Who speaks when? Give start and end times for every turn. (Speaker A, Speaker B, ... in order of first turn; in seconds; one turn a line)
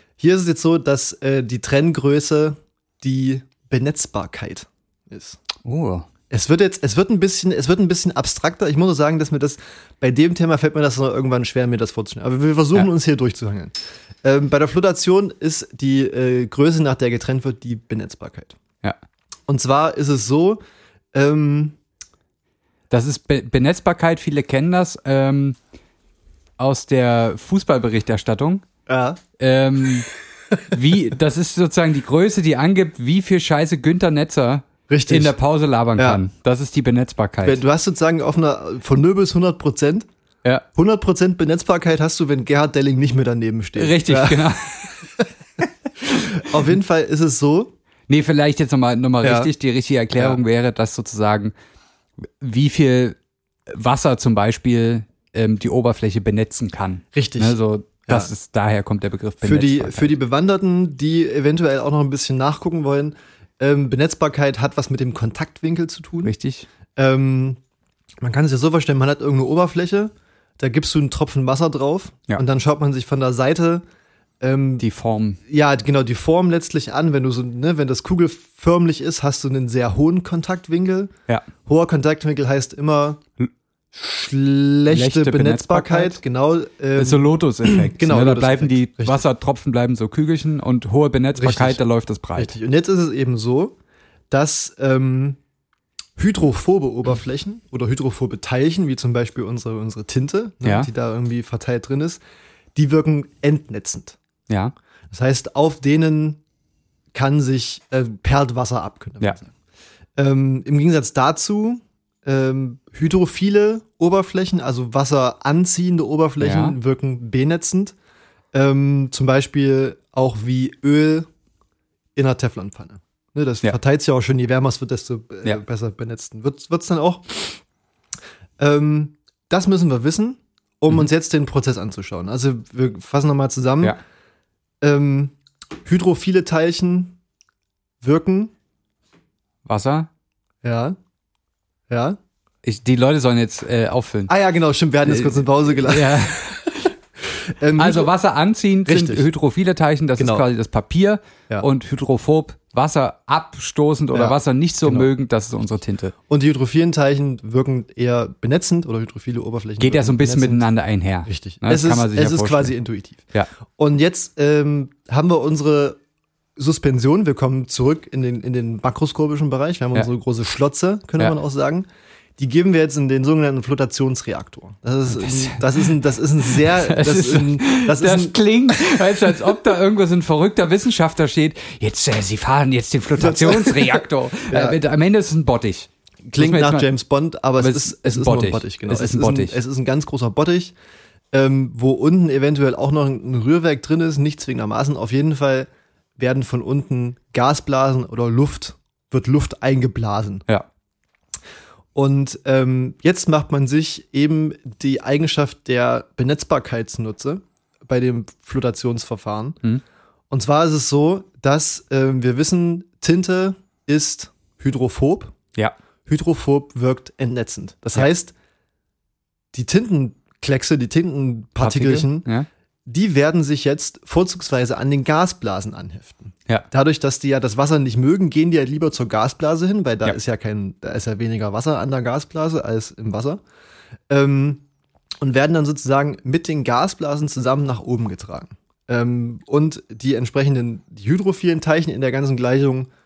Speaker A: 0.2-5.4
Speaker B: 5.6-6.1
Speaker A: 6.3-18.6
Speaker A: 19.5-20.6
Speaker A: 21.1-21.8
Speaker B: 22.9-25.6
Speaker B: 26.6-28.6
Speaker A: 28.9-29.2
Speaker B: 29.4-30.1
Speaker B: 30.7-37.6
Speaker A: 34.9-35.3
Speaker A: 36.0-36.2
Speaker A: 37.4-40.1
Speaker A: 40.7-47.7
Speaker B: 43.8-45.0
Speaker B: 48.1-51.5
Speaker A: 49.2-49.5
Speaker B: 52.4-53.2
Speaker B: 53.7-60.1
Speaker A: 57.1-57.5
Speaker A: 59.4-66.3
Speaker B: 66.2-66.7
Speaker A: 67.0-67.6
Speaker A: 68.2-73.8
Speaker A: 74.4-74.8
Speaker B: 74.8-75.4
Speaker A: 75.5-81.1
Speaker A: 81.7-83.2
Speaker A: 83.9-89.2
Speaker B: 84.9-86.2
Speaker B: 87.0-92.5
Speaker A: 91.3-91.8
Speaker A: 92.4-93.7
Speaker A: 94.3-95.4
Speaker A: 96.2-102.2
Speaker B: 100.6-100.9
Speaker A: 102.7-104.2
Speaker B: 104.5-104.7
Speaker A: 105.1-106.4
Speaker A: 107.1-109.5
Speaker A: 110.2-117.9
Speaker B: 116.4-116.8
Speaker A: 118.5-121.3
Speaker A: 122.2-127.6
Speaker A: 128.6-133.9
Speaker A: 134.8-137.2
Speaker A: 138.0-138.5
Speaker B: 139.6-140.1
Speaker A: 140.6-140.9
Speaker A: 141.9-142.2
Speaker B: 142.6-144.3
Speaker A: 144.3-146.7
Speaker B: 145.1-146.9
Speaker A: 147.5-148.1
Speaker B: 147.8-156.1
Speaker A: 148.8-149.2
Speaker A: 150.2-150.4
Speaker A: 154.1-155.1
Speaker A: 156.3-160.7
Speaker B: 159.8-162.7
Speaker A: 161.2-166.0
Speaker A: 166.6-171.8
Speaker A: 172.4-178.3
Speaker B: 175.1-175.9
Speaker B: 176.4-186.9
Speaker A: 183.2-184.8
Speaker A: 186.2-190.7
Speaker B: 187.6-189.6
Speaker A: 191.3-200.4
Speaker A: 201.9-209.6
Speaker A: 210.3-215.3
Speaker A: 216.1-218.3
Speaker A: 219.5-222.3
Speaker B: 221.6-222.5
Speaker A: 222.8-233.4
Speaker A: 234.1-234.6
Speaker A: 235.2-242.9